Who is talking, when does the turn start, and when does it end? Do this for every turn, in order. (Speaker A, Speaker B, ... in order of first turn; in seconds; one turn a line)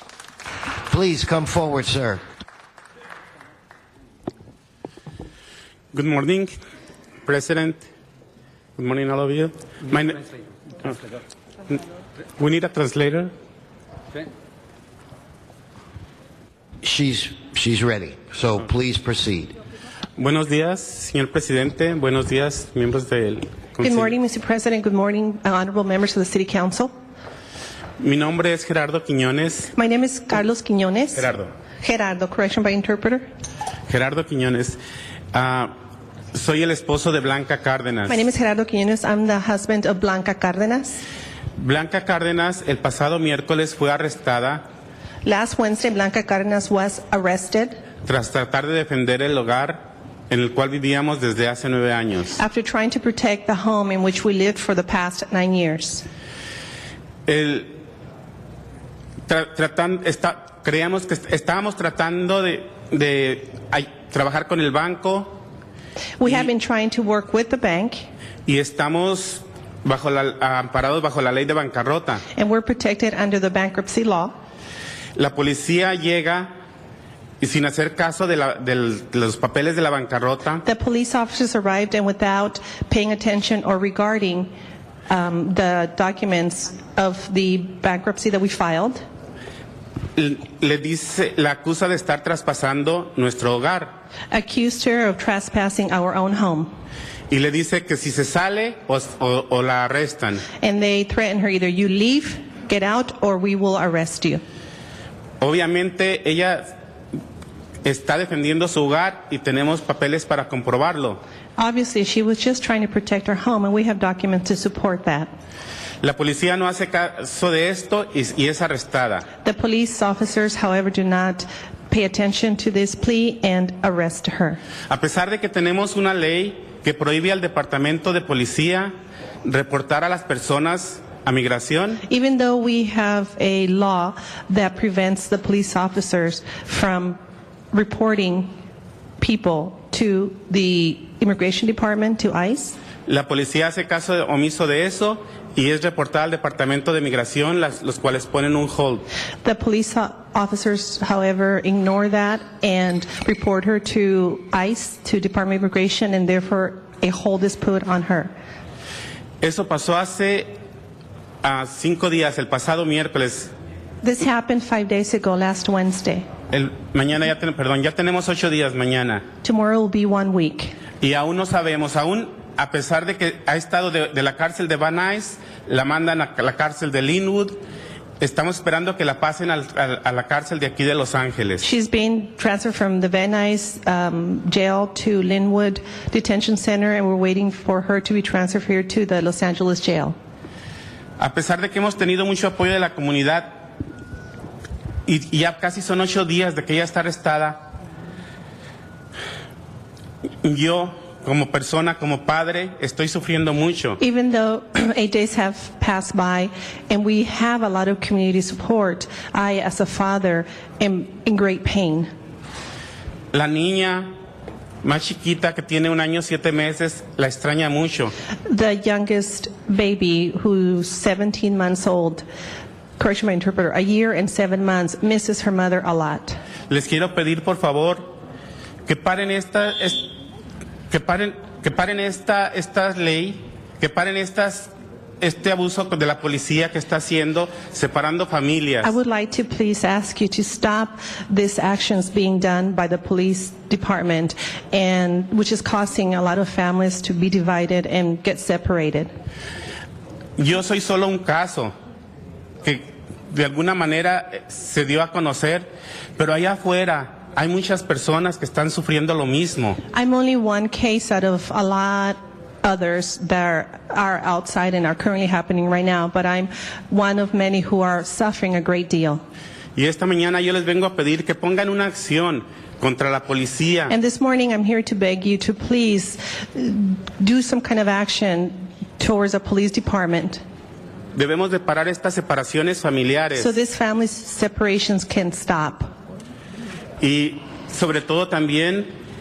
Speaker A: 0.9-2.2
Speaker B: 5.9-6.5
Speaker B: 7.2-7.8
Speaker B: 8.8-10.2
Speaker B: 12.4-13.3
Speaker A: 16.8-19.5
Speaker B: 20.2-24.1
Speaker C: 23.8-26.9
Speaker B: 28.0-29.7
Speaker C: 29.7-33.2
Speaker B: 31.1-31.5
Speaker B: 33.9-34.8
Speaker B: 35.3-35.7
Speaker B: 36.3-38.2
Speaker C: 38.0-41.0
Speaker B: 41.6-44.6
Speaker C: 45.2-47.8
Speaker B: 48.0-52.4
Speaker C: 52.4-56.0
Speaker B: 57.3-57.7
Speaker B: 59.3-65.4
Speaker C: 66.2-68.1
Speaker B: 68.5-72.2
Speaker C: 72.3-74.3
Speaker B: 75.2-76.5
Speaker B: 77.4-80.6
Speaker C: 80.6-84.5
Speaker C: 85.1-89.0
Speaker B: 90.2-93.9
Speaker C: 94.3-96.7
Speaker B: 97.3-100.4
Speaker C: 100.6-104.4
Speaker B: 105.4-106.7
Speaker B: 107.8-111.2
Speaker C: 111.6-115.3
Speaker B: 116.0-119.2
Speaker C: 119.4-124.6
Speaker B: 124.9-128.9
Speaker B: 129.4-132.0
Speaker C: 132.1-137.2
Speaker C: 137.7-138.5
Speaker C: 139.2-142.8
Speaker B: 143.1-149.0
Speaker C: 149.4-158.3
Speaker B: 159.4-160.5
Speaker B: 161.4-163.5
Speaker C: 164.0-166.3
Speaker B: 166.5-169.2
Speaker C: 169.4-170.8
Speaker B: 171.0-177.6
Speaker B: 178.2-181.6
Speaker C: 181.6-190.2
Speaker B: 191.2-193.6
Speaker B: 195.1-197.6
Speaker B: 200.4-204.0
Speaker C: 204.0-212.1
Speaker B: 213.3-214.1
Speaker B: 214.8-218.1
Speaker C: 218.5-222.2
Speaker C: 223.0-226.3
Speaker B: 226.7-228.1
Speaker B: 228.9-230.1
Speaker B: 230.9-238.9
Speaker C: 238.8-249.1
Speaker B: 250.4-251.7
Speaker B: 252.6-255.7
Speaker B: 256.2-259.8
Speaker C: 259.9-269.2
Speaker B: 269.8-273.9
Speaker C: 273.9-280.4
Speaker B: 281.1-283.5
Speaker C: 283.4-285.9
Speaker B: 287.0-288.9